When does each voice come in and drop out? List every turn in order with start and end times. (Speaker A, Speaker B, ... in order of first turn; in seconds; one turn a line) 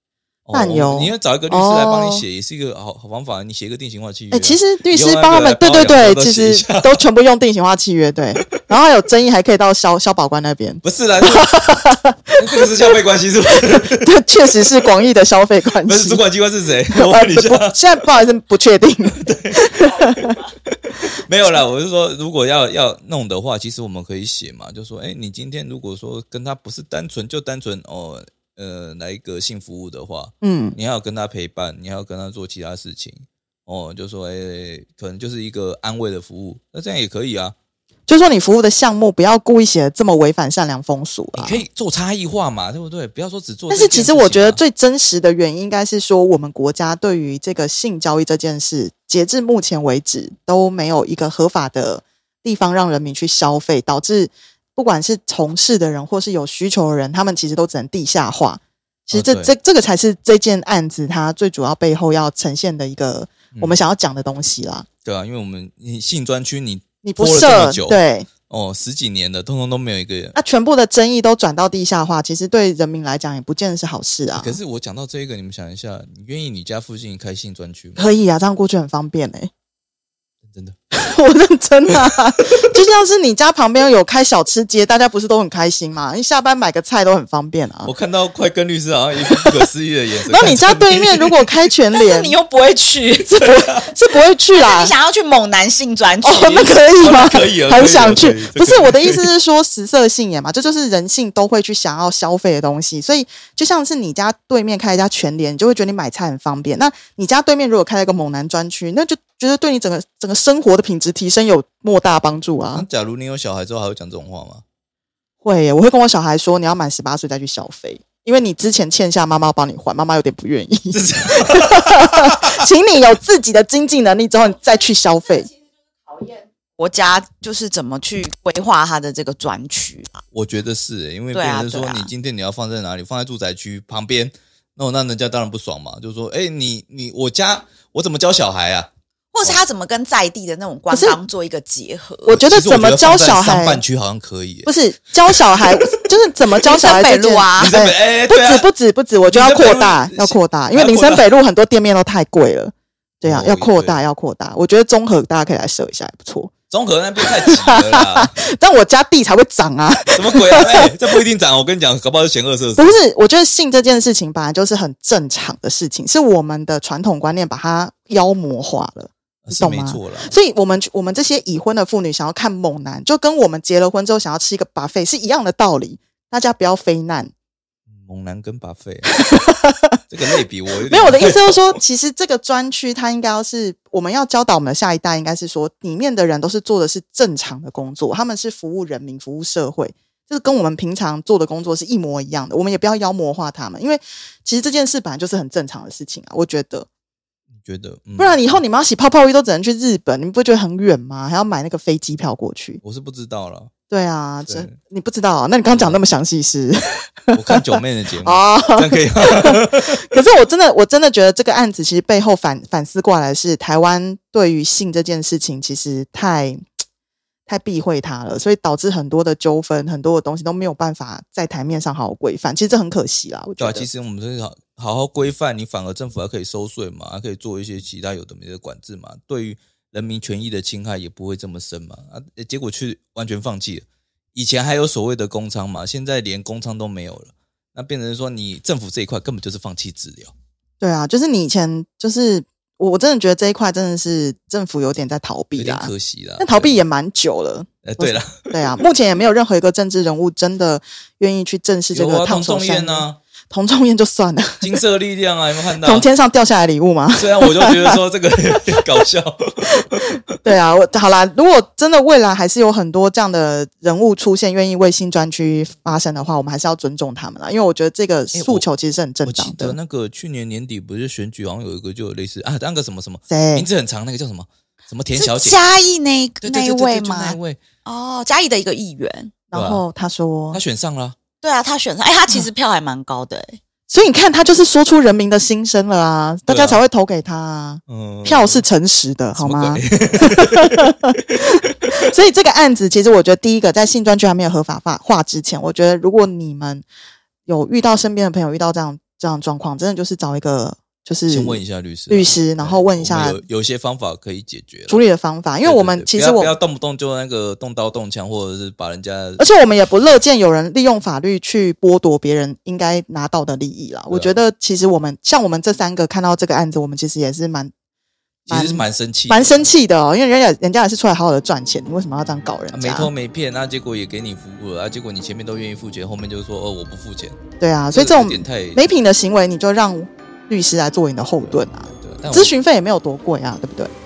Speaker A: 0.5-7.0
Speaker B: 0.5-2.2
Speaker B: 4.3-12.4
Speaker A: 10.8-11.7
Speaker A: 12.4-14.1
Speaker B: 13.7-16.2
Speaker A: 15.8-17.8
Speaker B: 16.9-20.3
Speaker A: 19.1-37.5
Speaker C: 20.1-20.5
Speaker B: 30.4-30.8
Speaker B: 38.1-41.6
Speaker A: 41.3-44.6
Speaker B: 43.7-64.9
Speaker A: 59.1-59.5
Speaker A: 63.5-63.8
Speaker A: 65.0-70.3
Speaker B: 67.0-68.3
Speaker B: 70.3-74.6
Speaker A: 74.3-78.0
Speaker B: 78.0-79.5
Speaker A: 80.5-80.8
Speaker B: 80.9-87.9
Speaker A: 81.9-82.5
Speaker A: 87.8-91.5
Speaker B: 89.3-89.6
Speaker B: 90.3-92.3
Speaker C: 91.9-93.4
Speaker B: 93.2-94.9
Speaker A: 93.6-93.8
Speaker C: 94.5-96.7
Speaker B: 96.2-112.8
Speaker A: 97.0-99.3
Speaker A: 112.7-114.6
Speaker B: 115.4-125.5
Speaker A: 120.9-122.5
Speaker C: 125.3-130.2
Speaker A: 130.3-138.9
Speaker C: 131.3-132.1
Speaker C: 139.3-142.4
Speaker B: 140.9-141.2
Speaker B: 142.2-143.8
Speaker A: 142.3-144.7
Speaker B: 144.7-156.5
Speaker A: 145.2-145.9
Speaker C: 146.6-147.7
Speaker A: 147.5-148.7
Speaker A: 149.3-151.3
Speaker A: 153.2-154.0
Speaker A: 156.7-158.3
Speaker B: 157.2-160.9
Speaker A: 160.1-163.0
Speaker B: 162.8-177.3
Speaker A: 169.4-170.3
Speaker A: 177.9-179.1
Speaker B: 179.0-180.0
Speaker A: 180.1-181.8
Speaker B: 180.9-196.9
Speaker A: 197.5-198.6
Speaker B: 198.2-202.8
Speaker A: 202.8-203.7
Speaker B: 203.9-216.6
Speaker A: 204.5-204.7
Speaker A: 205.7-206.0
Speaker A: 207.3-210.0
Speaker B: 217.5-223.9
Speaker A: 223.6-240.3
Speaker B: 240.8-254.8
Speaker A: 245.6-246.8
Speaker A: 247.8-248.7
Speaker A: 251.9-253.2
Speaker A: 254.6-256.1
Speaker B: 255.8-258.0
Speaker A: 257.2-260.1
Speaker B: 260.4-269.8
Speaker A: 268.3-268.6
Speaker A: 269.2-275.6
Speaker B: 273.3-273.7
Speaker C: 275.1-279.3
Speaker A: 276.4-277.6
Speaker B: 279.5-280.6
Speaker A: 279.5-279.8
Speaker A: 280.5-281.2
Speaker C: 281.4-283.6
Speaker B: 283.9-296.9
Speaker A: 286.5-286.8
Speaker A: 287.9-288.6
Speaker A: 289.4-291.9
Speaker B: 297.4-303.4
Speaker A: 301.3-305.0
Speaker B: 304.9-306.5
Speaker A: 305.6-309.4
Speaker B: 309.4-317.7
Speaker A: 314.1-314.3
Speaker B: 318.5-323.1
Speaker A: 318.5-319.6
Speaker A: 322.7-327.4
Speaker B: 327.6-333.9
Speaker A: 327.9-328.8
Speaker A: 331.4-332.5